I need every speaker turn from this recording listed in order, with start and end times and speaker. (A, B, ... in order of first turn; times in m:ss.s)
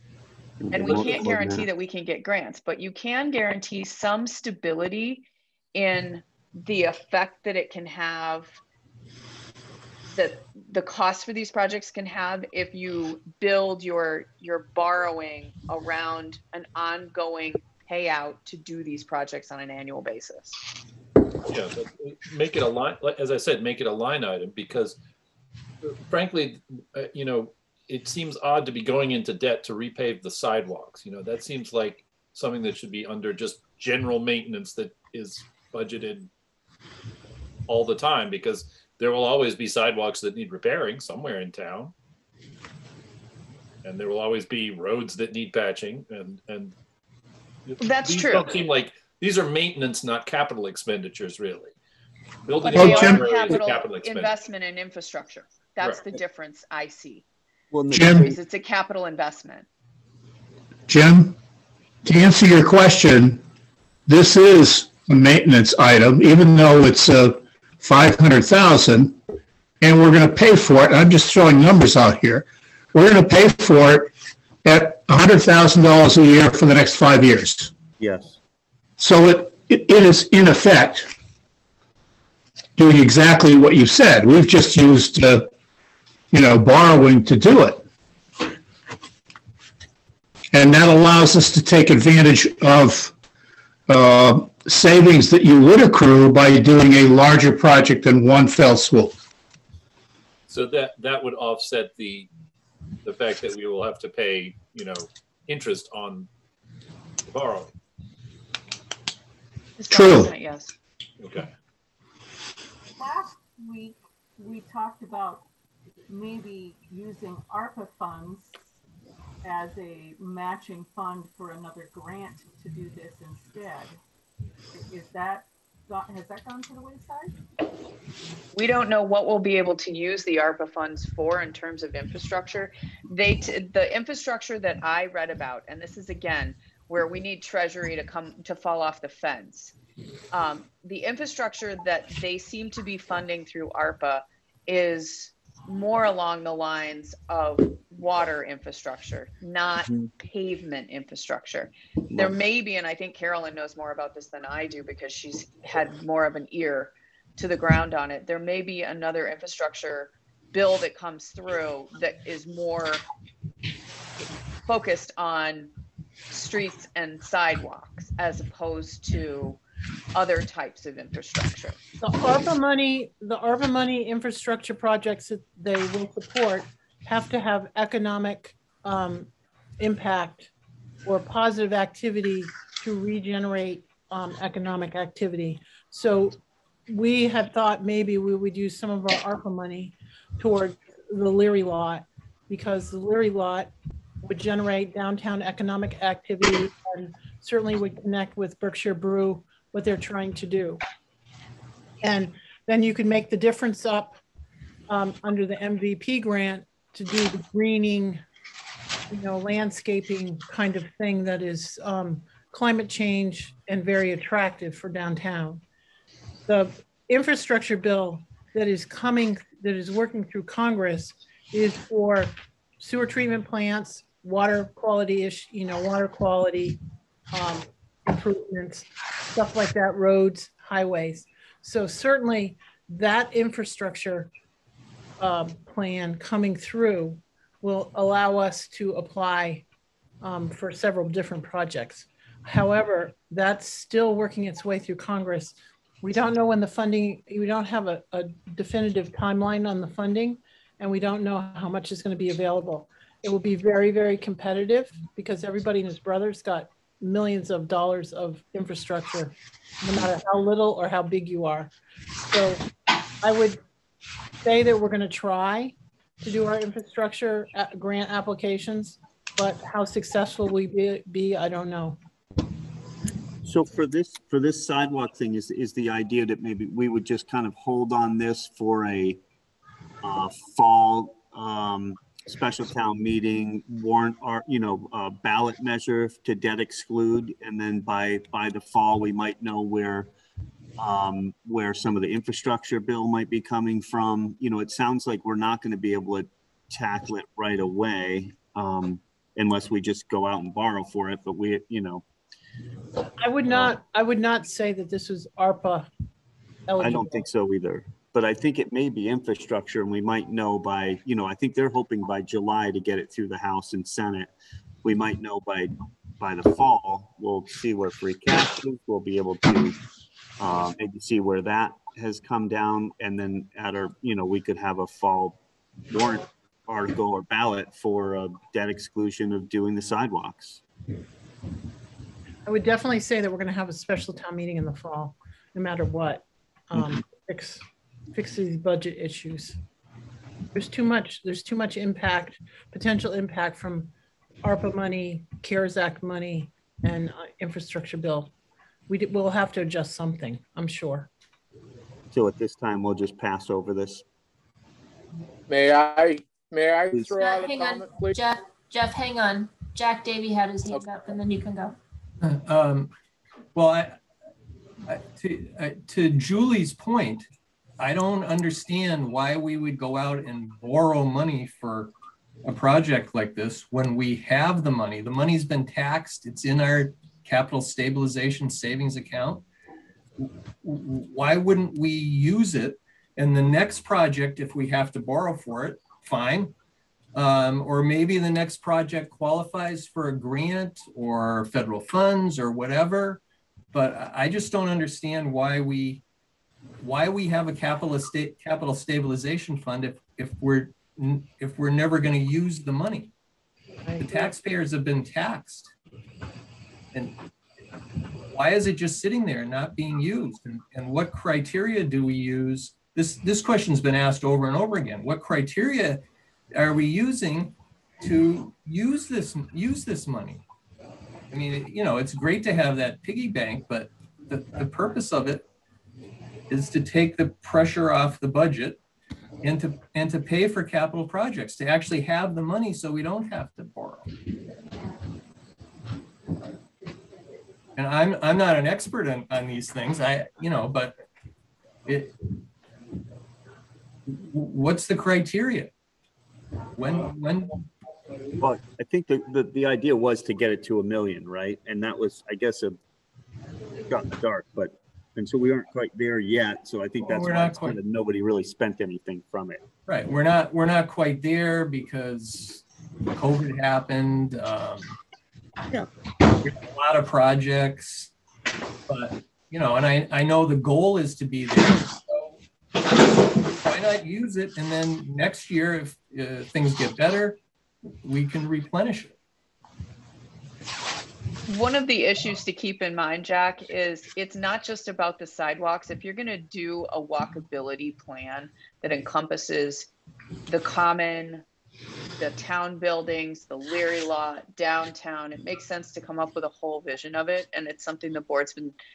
0:00.6-0:01.6 A
0:00.7-0:08.6 B
0:10.1-0:20.6 B
0:21.5-0:25.0 C
0:25.8-0:36.3 C
0:37.7-0:41.9 C
0:43.8-0:46.8 C
0:47.7-0:51.8 C
0:47.8-0:48.6 B
0:52.5-0:54.3 C
0:52.6-0:57.2 B
0:52.7-0:53.2 D
0:57.7-0:58.4 A
0:57.9-0:58.3 D
0:58.1-0:59.7 B
1:00.9-1:01.4 D
1:02.0-1:03.4 D
1:04.1-1:09.2 D
1:09.8-1:14.1 D
1:14.6-1:17.7 D
1:18.0-1:18.4 A
1:19.0-1:21.1 D
1:22.8-1:25.5 D
1:26.3-1:27.8 D
1:30.5-1:33.1 D
1:33.9-1:39.2 D
1:40.5-1:42.3 C
1:43.0-1:46.3 C
1:47.3-1:47.7 C
1:49.8-1:50.8 B
1:49.9-1:50.3 D
1:51.2-1:51.5 C
1:53.0-1:55.4 E
1:56.1-1:58.6 E
1:59.4-2:03.9 E
2:04.7-2:07.4 E
2:08.5-2:19.7 B
2:20.3-2:43.0 B
2:29.9-2:30.1 A
2:44.7-2:45.7 B
2:46.3-2:49.6 B
2:50.2-2:51.8 B
2:52.0-3:00.5 F
3:01.0-3:13.7 F
3:14.2-3:20.8 F
3:22.0-3:24.2 F
3:24.9-3:28.2 F
3:29.1-3:35.6 F
3:36.5-3:46.8 F
3:47.3-3:54.3 F
3:55.2-3:59.6 F
4:00.2-4:21.7 F
4:22.3-4:22.6 F
4:23.2-4:23.6 F
4:24.4-4:32.0 F
4:33.4-4:39.2 A
4:40.0-4:50.1 A
4:50.8-5:02.0 A
5:03.2-5:05.9 F
5:03.4-5:03.8 A
5:06.7-5:07.2 F
5:06.8-5:14.3 A
5:14.8-5:19.8 A
5:20.4-5:25.4 A
5:25.9-5:30.6 A
5:32.4-5:37.6 F
5:38.1-5:39.6 F
5:40.5-5:43.9 F
5:44.4-5:48.3 F
5:48.9-5:51.1 F
5:52.1-5:54.0 A
5:55.5-5:58.2 G
5:57.2-6:01.8 H
6:02.2-6:02.9 I
6:03.6-6:04.0 I
6:04.8-6:07.3 I
6:07.8-6:11.9 I
6:12.4-6:19.4 I
6:20.2-6:26.5 I
6:27.2-6:33.2 I
6:33.7-6:36.0 I
6:36.8-6:43.1 I
6:43.8-6:44.4 F
6:44.1-6:45.7 I
6:48.3-6:56.0 I
6:56.5-7:00.4 I
7:01.3-7:05.4 I
7:06.5-7:08.8 I
7:09.4-7:14.1 I
7:17.8-7:20.9 I
7:21.9-7:22.1 I
7:24.1-7:25.7 I
7:26.8-7:27.6 I
7:28.4-7:32.8 A
7:33.9-7:39.6 A
7:37.0-7:37.8 I
7:39.9-7:44.9 I
7:46.4-7:48.1 I
7:48.9-7:52.4 I
7:53.0-7:57.4 I
7:58.0-7:59.1 I
8:01.5-8:09.9 B
8:10.5-8:11.4 B
8:12.2-8:18.8 B